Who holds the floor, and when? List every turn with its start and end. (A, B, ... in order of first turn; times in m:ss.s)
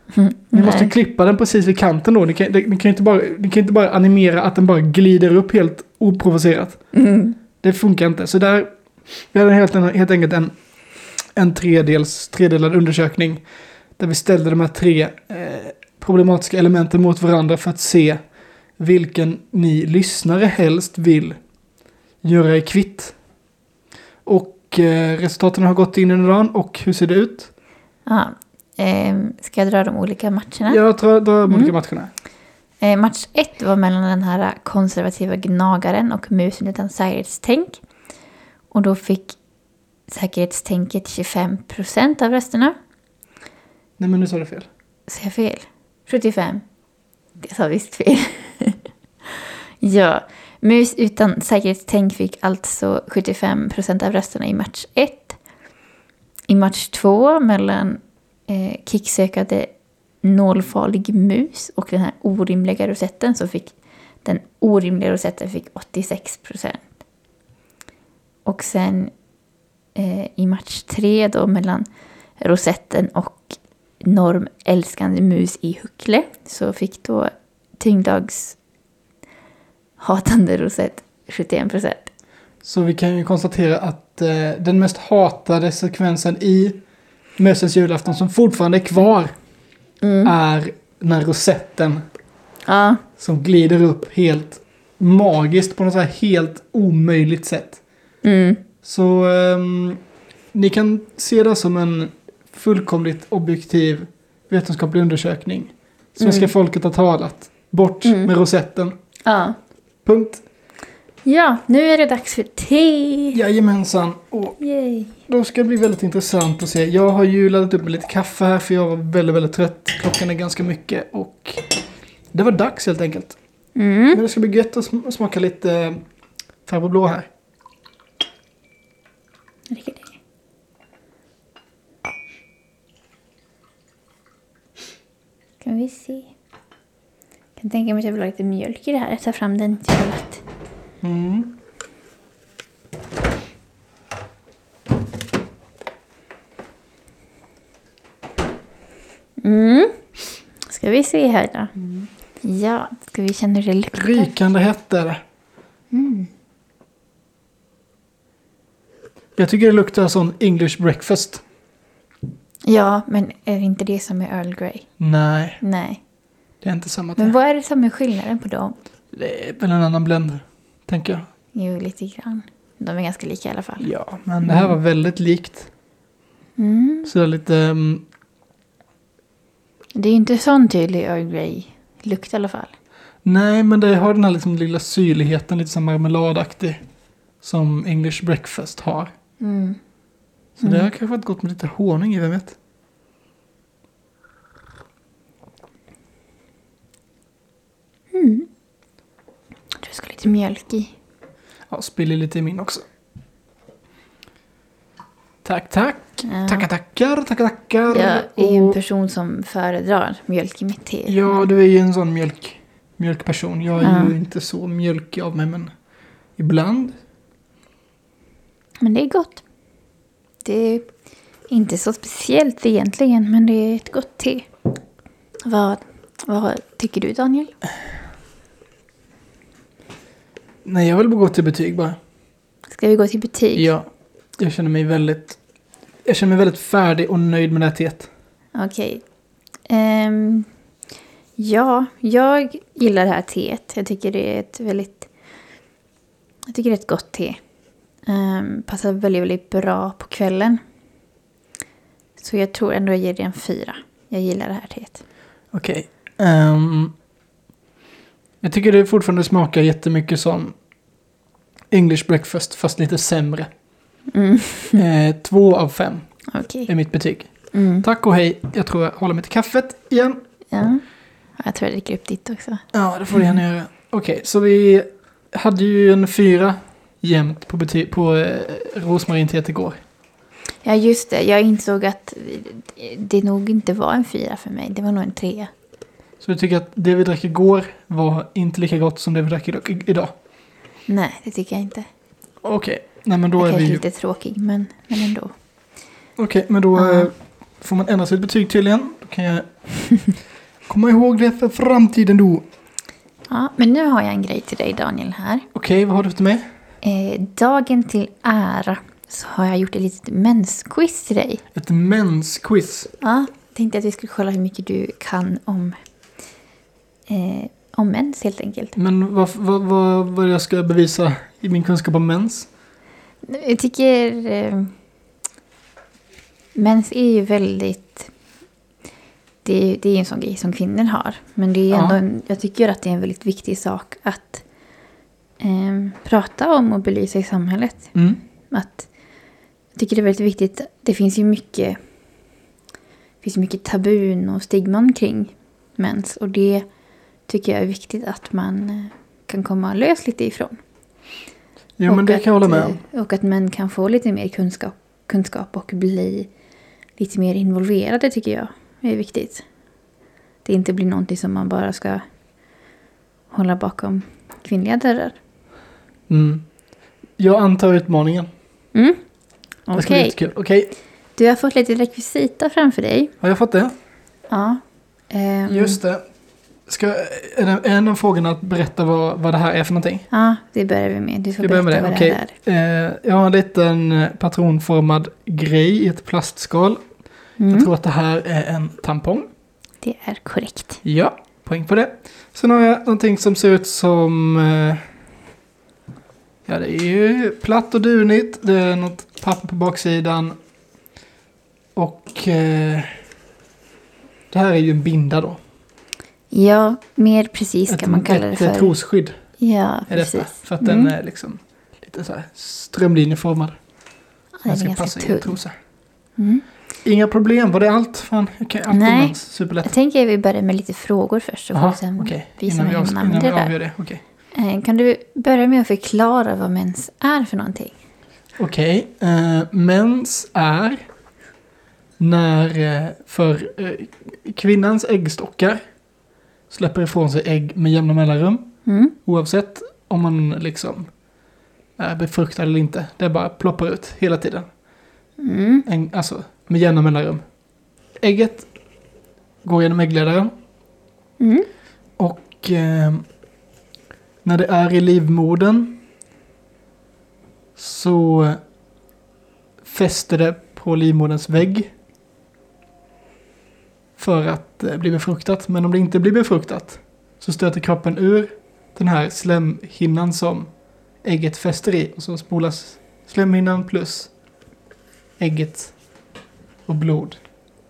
0:00.1-0:00.9 A
0:00.5-0:06.9 B
0:06.9-0:07.4 A
0:07.6-0:10.5 B
0:11.2-0:13.4 B
0:14.0-0:18.2 B
0:18.8-0:21.4 B
0:22.2-0:23.2 B
0:24.2-0:27.5 B
0:28.0-0:30.8 A
0:30.7-0:32.1 B
0:31.5-0:31.7 A
0:32.8-0:37.8 A
0:38.7-0:39.4 A
0:40.1-0:42.7 A
0:44.0-0:44.7 B
0:45.1-0:46.6 A
0:47.4-0:48.9 A
0:49.8-0:55.4 A
0:56.5-1:07.0 A
1:08.4-1:09.1 A
1:09.9-1:11.9 A
1:12.4-1:18.6 A
1:20.0-1:22.1 A
1:22.6-1:26.8 B
1:27.4-1:29.3 B
1:30.0-1:30.3 A
1:30.2-1:32.0 B
1:32.6-1:33.0 A
1:33.2-1:37.8 B
1:38.2-1:38.6 A
1:38.8-1:40.0 B
1:40.5-1:48.9 B
1:46.2-1:46.5 A
1:48.0-1:48.3 A
1:49.2-1:49.5 A
1:50.0-1:50.4 B
1:51.2-1:53.4 A
1:53.3-1:54.6 B
1:54.6-1:55.1 A
1:55.2-2:01.7 B
2:02.3-2:03.4 B
2:03.7-2:04.2 A
2:04.1-2:06.0 B
2:06.6-2:07.3 B
2:09.7-2:10.2 A
2:15.6-2:16.3 A
2:17.6-2:20.4 A
2:21.0-2:21.5 B
2:29.4-2:30.0 A
2:30.6-2:34.3 A
2:33.9-2:35.2 B
2:35.9-2:36.3 A
2:39.4-2:41.4 B
2:42.6-2:44.9 A
2:45.0-2:45.6 B
2:45.6-2:46.0 A
2:46.6-2:47.4 B
2:47.2-2:48.8 A
2:49.1-2:51.2 B
2:51.5-2:53.9 A
2:53.8-2:55.7 B
2:54.4-2:54.8 A
2:56.6-2:57.1 A
2:57.0-2:58.0 B
2:59.9-3:02.7 A
3:03.2-3:06.8 B
3:07.4-3:09.1 B
3:09.4-3:09.8 A
3:10.6-3:12.6 B
3:10.6-3:10.9 A
3:18.1-3:18.5 A
3:19.8-3:20.9 A
3:21.7-3:22.8 B
3:25.4-3:28.8 B
3:26.2-3:26.6 A
3:27.9-3:31.5 A
3:31.1-3:35.8 B
3:33.8-3:34.1 A
3:36.4-3:37.0 B
3:38.8-3:39.4 A
3:40.4-3:40.9 A
3:41.5-3:44.5 A
3:45.4-3:47.5 A
3:50.6-3:52.0 B
3:52.7-3:53.7 A
3:53.5-3:53.8 B
3:54.4-3:55.4 B
3:56.0-3:58.1 B
3:58.5-3:59.0 A
3:59.7-4:00.5 A
4:01.4-4:05.1 A
4:06.5-4:07.4 A
4:08.0-4:10.6 A
4:12.2-4:15.0 A
4:15.5-4:16.9 B
4:18.4-4:20.6 B
4:21.7-4:23.5 B
4:24.1-4:24.8 A
4:24.7-4:30.2 B
4:26.3-4:26.7 A
4:27.5-4:27.8 A
4:30.5-4:33.4 A
4:32.7-4:39.8 B
4:40.6-4:45.5 A
4:46.2-4:50.1 B
4:50.9-4:51.9 A
4:52.4-4:53.8 B
4:53.4-4:55.3 A
4:56.2-4:59.5 B
4:56.7-4:57.1 A
5:00.6-5:02.4 B
5:03.3-5:05.4 A
5:05.5-5:06.4 B
5:06.8-5:11.4 A
5:11.5-5:12.9 B
5:13.0-5:15.8 A
5:17.1-5:18.8 A
5:18.7-5:22.5 B
5:23.2-5:24.7 A
5:26.5-5:28.1 A
5:29.4-5:34.4 A
5:31.7-5:32.0 B
5:35.4-5:38.0 A
5:37.9-5:38.2 B
5:38.5-5:38.9 A
5:39.7-5:41.8 A
5:43.2-5:46.7 A
5:47.2-5:50.6 A
5:51.8-5:52.8 B
5:51.8-5:56.3 A
5:57.0-5:59.5 A
6:00.4-6:02.0 A
6:03.3-6:05.2 A
6:06.1-6:06.5 B
6:07.2-6:08.3 B
6:08.7-6:09.0 A
6:09.6-6:10.2 A
6:09.7-6:10.7 B
6:11.2-6:13.1 A
6:13.2-6:13.7 B
6:14.3-6:15.8 A
6:15.4-6:16.0 B
6:16.6-6:20.0 B
6:20.1-6:22.3 A
6:21.4-6:27.0 B
6:27.4-6:27.7 A
6:27.5-6:29.3 B
6:29.8-6:30.8 A
6:30.8-6:34.8 B
6:36.4-6:40.3 B
6:41.7-6:43.0 B
6:44.3-6:45.4 B
6:46.3-6:48.7 A
6:47.7-6:49.3 B
6:49.4-6:50.9 A
6:49.9-6:53.7 B
6:54.4-6:55.4 A
6:54.4-6:55.5 B
6:56.2-6:56.4 A
6:56.8-6:59.7 B
6:58.7-7:03.5 A
7:01.5-7:04.0 B
7:04.3-7:07.8 A
7:08.4-7:10.8 B
7:12.0-7:15.7 B
7:16.5-7:21.0 B
7:18.6-7:18.9 A
7:21.8-7:24.5 B
7:25.2-7:25.6 A
7:25.6-7:27.2 B
7:28.0-7:28.5 B
7:29.4-7:30.3 B
7:31.2-7:31.5 A
7:32.0-7:33.1 B
7:34.2-7:35.8 B
7:37.6-7:38.4 B
7:39.6-7:41.7 B
7:44.0-7:54.1 B
7:55.2-7:56.0 B
7:56.6-7:57.2 B